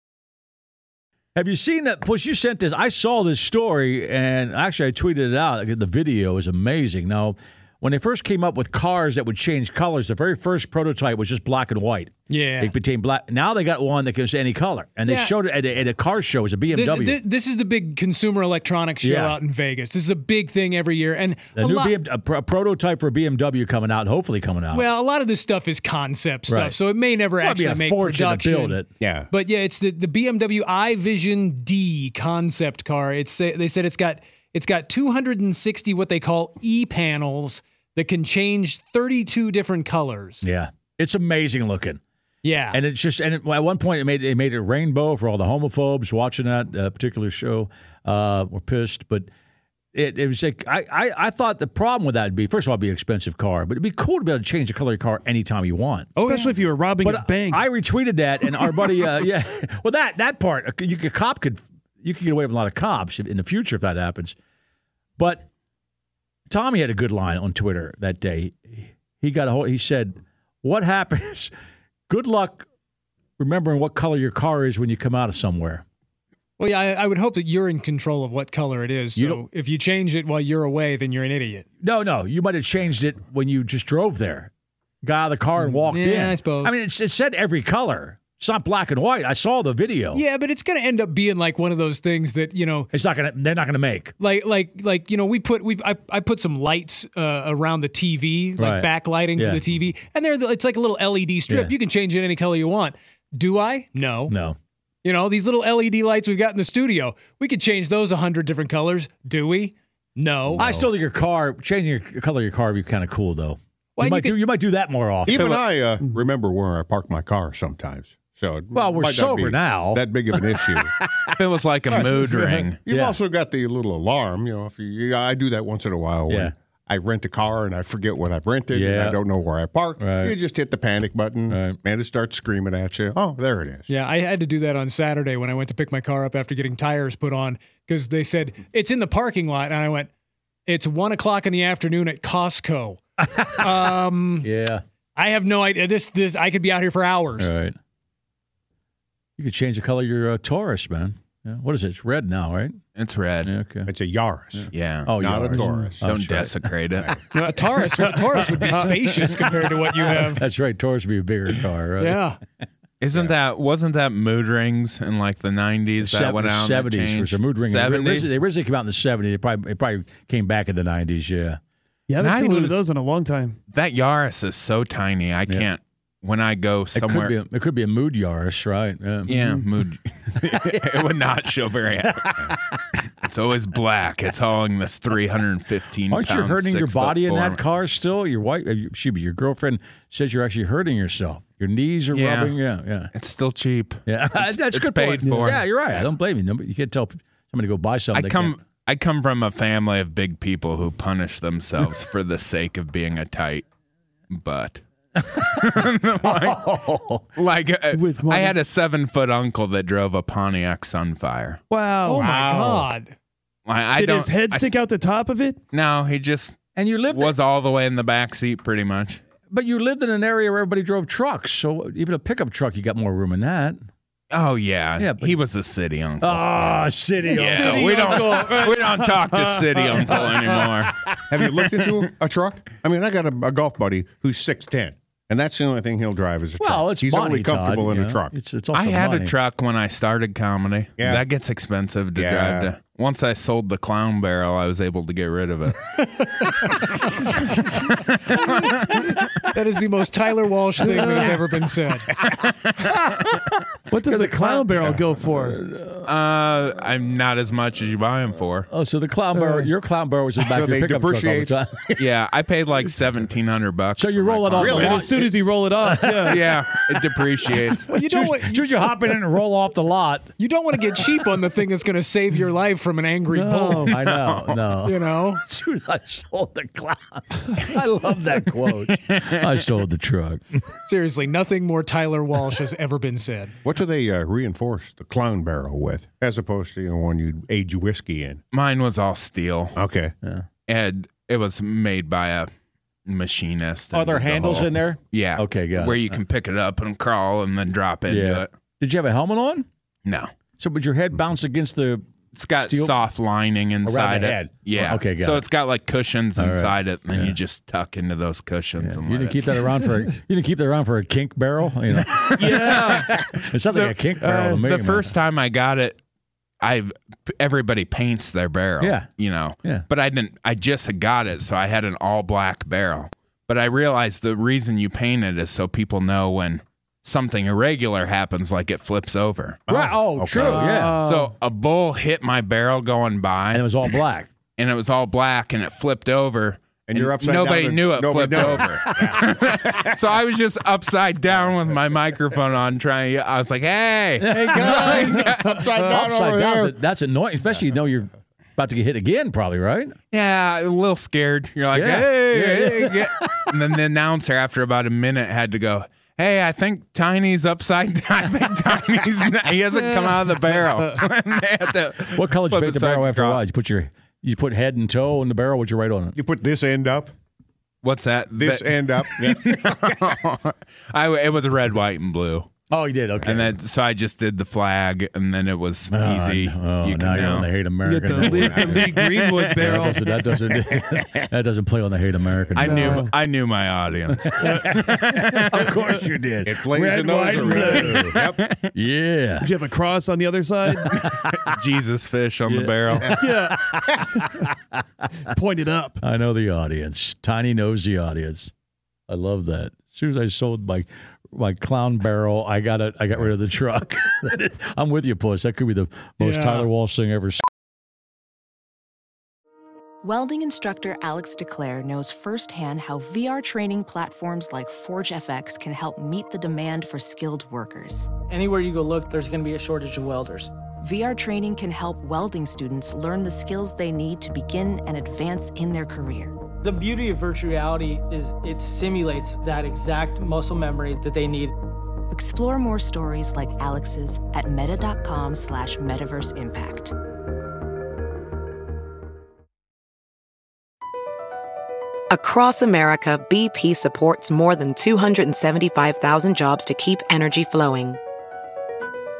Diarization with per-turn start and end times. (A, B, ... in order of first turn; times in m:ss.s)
0:01.3-0:17.2 A
0:12.3-0:12.7 B
0:15.0-0:15.3 B
0:16.7-0:21.9 B
0:19.0-0:19.4 A
0:21.6-0:24.8 A
0:24.7-0:40.4 B
0:26.5-0:26.8 A
0:27.4-0:28.9 A
0:29.0-0:29.3 C
0:40.4-0:42.0 A
0:42.4-0:42.8 B
0:42.7-0:49.3 A
0:49.9-0:56.2 A
0:56.2-0:56.6 B
0:56.2-0:57.7 D
0:57.0-1:04.4 A
0:58.5-0:58.9 D
1:05.2-1:05.5 A
1:06.5-1:11.5 A
1:12.1-1:12.7 A
1:13.4-1:15.8 A
1:16.6-1:21.6 B
1:19.1-1:19.4 A
1:21.8-1:24.5 A
1:25.0-1:30.2 A
1:25.6-1:26.7 B
1:30.1-1:32.9 B
1:32.9-1:34.1 A
1:34.2-1:44.3 B
1:38.6-1:39.6 A
1:41.5-1:41.7 A
1:44.3-1:44.6 A
1:45.0-1:50.9 B
1:50.5-1:55.6 A
1:54.0-1:54.4 B
1:55.2-2:00.9 C
1:55.3-1:55.6 E
1:58.7-2:01.3 A
2:01.4-2:02.8 E
2:01.9-2:02.2 C
2:01.9-2:03.2 A
2:02.8-2:13.9 C
2:06.3-2:06.5 A
2:08.7-2:09.2 A
2:10.0-2:10.4 A
2:11.5-2:11.8 A
2:13.9-2:20.1 B
2:20.7-2:24.5 B
2:24.4-2:24.8 A
2:25.2-2:27.5 B
2:27.4-2:27.8 A
2:29.4-2:32.8 A
2:32.9-2:33.5 E
2:33.4-2:33.9 A
2:33.8-2:36.0 C
2:34.5-2:36.9 A
2:34.7-2:37.2 E
2:37.0-2:37.2 C
2:37.3-2:40.4 B
2:40.2-2:42.2 A
2:42.0-2:42.4 B
2:43.0-2:48.3 E
2:46.0-2:51.6 A
2:52.1-2:53.6 D
2:52.2-2:52.8 E
2:53.7-2:57.4 E
2:56.9-2:59.6 A
2:59.3-3:07.6 E
3:06.1-3:13.1 A
3:12.1-3:12.6 E
3:13.1-3:16.1 E
3:14.1-3:18.5 A
3:15.2-3:15.6 D
3:18.1-3:23.6 E
3:24.3-3:24.8 E
3:25.3-3:25.7 A
3:25.3-3:26.7 E
3:26.2-3:27.2 A
3:27.4-3:31.6 E
3:27.9-3:28.6 D
3:31.7-3:32.3 D
3:32.0-3:33.1 B
3:32.2-3:32.9 C
3:33.6-3:34.7 E
3:34.0-3:35.6 D
3:35.7-3:39.2 E
3:36.8-3:37.4 A
3:39.5-3:43.8 A
3:44.3-3:46.6 E
3:45.0-3:45.4 A
3:46.2-3:48.4 A
3:47.3-3:50.7 D
3:47.3-3:51.0 E
3:51.3-3:58.3 C
3:56.6-3:59.4 A
3:58.7-4:05.9 E
4:01.0-4:01.2 C
4:02.2-4:02.7 C
4:06.3-4:07.6 B
4:07.6-4:09.0 E
4:09.5-4:12.1 B
4:10.8-4:11.4 D
4:12.8-4:16.1 A
4:13.9-4:15.6 D
4:16.0-4:18.7 E
4:18.7-4:21.7 A
4:19.3-4:19.7 D
4:20.4-4:22.0 C
4:22.0-4:24.9 E
4:24.0-4:25.3 A
4:24.6-4:25.1 C
4:24.7-4:26.5 D
4:25.8-4:30.3 A
4:26.3-4:27.9 E
4:27.9-4:29.0 B
4:30.4-4:33.9 B
4:33.3-4:34.0 D
4:33.8-4:40.6 A
4:34.0-4:34.6 E
4:34.8-4:35.4 B
4:38.7-4:39.6 E
4:40.8-4:43.5 B
4:43.6-4:48.4 C
4:48.5-4:49.8 E
4:49.8-4:50.1 C
4:50.7-4:52.5 E
4:53.0-4:58.5 E
4:53.9-4:56.2 A
4:58.1-4:59.7 A
5:00.0-5:00.3 E
5:00.6-5:02.0 A
5:02.3-5:09.7 E
5:02.6-5:03.0 A
5:03.8-5:05.5 A
5:06.4-5:07.4 A
5:08.8-5:15.1 A
5:11.9-5:16.0 E
5:12.4-5:13.1 D
5:16.6-5:29.6 E
5:18.8-5:19.1 A
5:29.7-5:30.6 C
5:29.7-5:31.0 A
5:30.3-5:33.8 E
5:30.5-5:31.3 D
5:33.5-5:34.3 A
5:34.6-5:45.6 E
5:36.9-5:39.9 C
5:44.2-5:50.0 A
5:44.3-5:46.7 C
5:50.1-6:03.4 E
5:51.7-5:53.4 A
6:02.1-6:06.2 A
6:06.2-6:07.1 C
6:07.8-6:12.5 E
6:08.4-6:10.0 C
6:12.7-6:13.6 A
6:13.2-6:17.5 E
6:15.9-6:18.9 A
6:17.8-6:20.2 D
6:18.2-6:18.9 C
6:18.9-6:19.5 E
6:19.6-6:23.0 A
6:22.5-6:25.7 E
6:22.6-6:23.1 D
6:24.3-6:28.2 A
6:24.4-6:24.8 D
6:26.4-6:28.4 C
6:27.4-6:28.0 D
6:28.2-6:28.7 E
6:28.7-6:29.5 A
6:29.4-6:30.9 D
6:30.8-6:31.4 A
6:31.0-6:33.1 E
6:32.4-6:34.8 A
6:33.1-6:33.6 D
6:35.2-6:36.0 D
6:36.0-6:38.5 A
6:39.1-6:47.4 A
6:46.2-6:46.7 B
6:50.0-6:58.1 F
6:58.3-7:00.5 G
7:00.8-7:06.3 F
7:06.6-7:11.5 G
7:12.1-7:16.9 F
7:22.1-7:28.0 H